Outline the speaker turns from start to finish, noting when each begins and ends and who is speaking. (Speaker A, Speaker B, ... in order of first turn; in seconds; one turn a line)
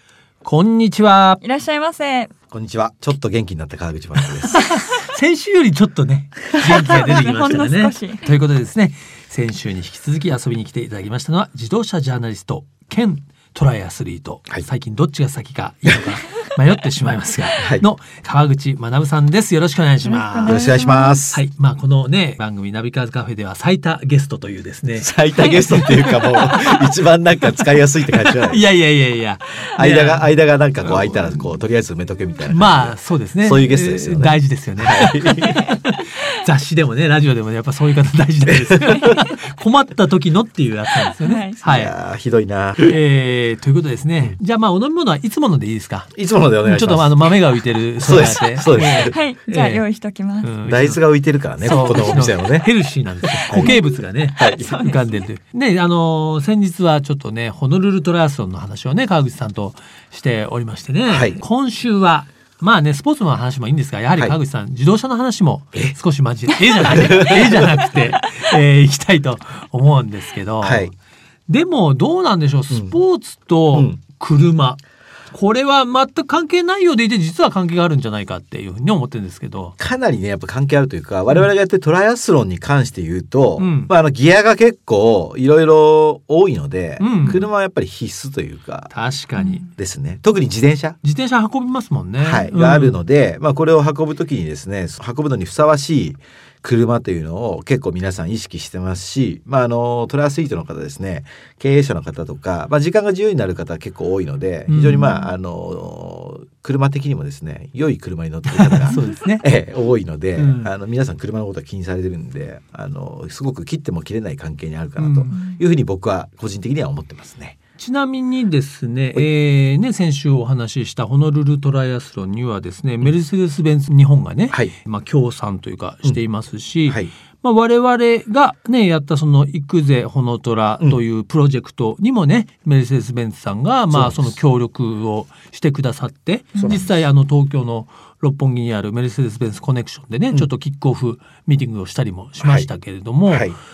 Speaker A: 0.4-1.4
Speaker B: 1.4-2.3
Speaker C: 2.5-4.6
Speaker A: 4.4-20.8
Speaker B: 6.5-8.3
Speaker C: 17.6-17.9
Speaker B: 20.0-21.2
Speaker C: 20.4-21.4
Speaker A: 21.3-31.5
Speaker C: 24.9-28.6
Speaker C: 29.8-35.6
Speaker A: 32.5-41.9
Speaker B: 35.5-36.4
Speaker C: 38.5-39.2
Speaker B: 41.2-41.6
Speaker C: 41.6-43.0
Speaker A: 42.8-46.1
Speaker C: 46.1-47.2
Speaker A: 46.6-49.8
Speaker C: 48.0-49.1
Speaker B: 48.9-50.5
Speaker A: 50.4-51.0
Speaker C: 50.6-52.7
Speaker A: 51.6-70.9
Speaker B: 51.7-52.0
Speaker B: 53.3-55.2
Speaker C: 53.4-53.8
Speaker C: 54.4-54.9
Speaker C: 61.1-61.4
Speaker C: 66.8-67.8
Speaker C: 70.6-70.9
Speaker A: 71.5-74.8
Speaker C: 72.7-73.0
Speaker C: 73.7-74.0
Speaker A: 75.3-79.8
Speaker C: 79.8-88.9
Speaker A: 83.6-83.9
Speaker A: 87.0-87.4
Speaker A: 88.9-89.6
Speaker B: 89.4-89.7
Speaker C: 89.7-91.0
Speaker A: 91.0-93.0
Speaker C: 92.2-117.6
Speaker A: 104.7-105.2
Speaker A: 108.5-109.5
Speaker A: 110.4-110.7
Speaker A: 115.0-115.4
Speaker B: 115.3-115.6
Speaker A: 117.8-143.5
Speaker C: 126.9-127.1
Speaker C: 133.9-134.4
Speaker C: 136.6-136.9
Speaker C: 142.4-142.7
Speaker C: 143.3-143.6